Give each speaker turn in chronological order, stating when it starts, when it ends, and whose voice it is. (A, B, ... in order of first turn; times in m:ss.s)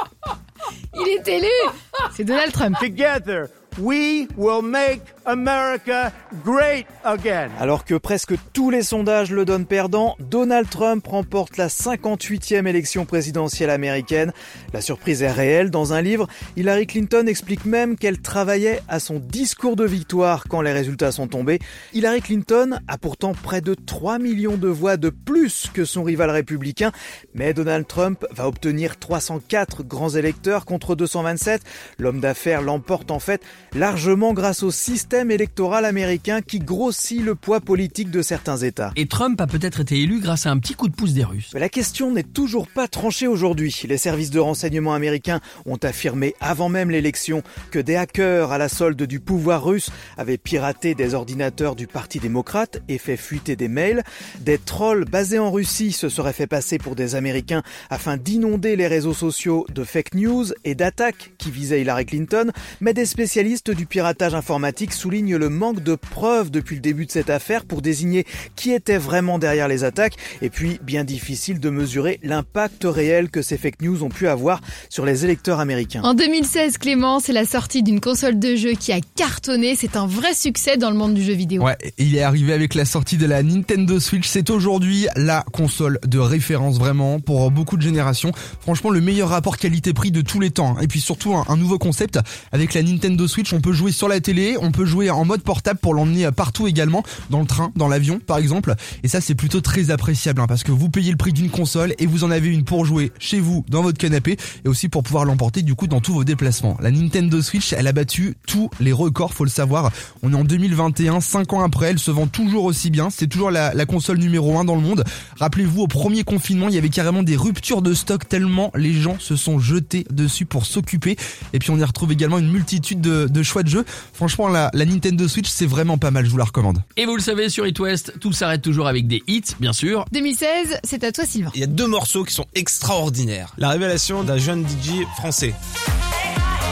0:00.9-0:02.8 A
0:02.8-0:07.6 B
0:07.6-0:38.9 C
0:39.0-0:41.5 D
0:41.5-1:16.1 C
1:16.0-1:21.6 A
1:21.6-2:06.8 E
2:07.0-2:10.1 D
2:10.1-2:11.6 A
2:11.5-2:15.6 F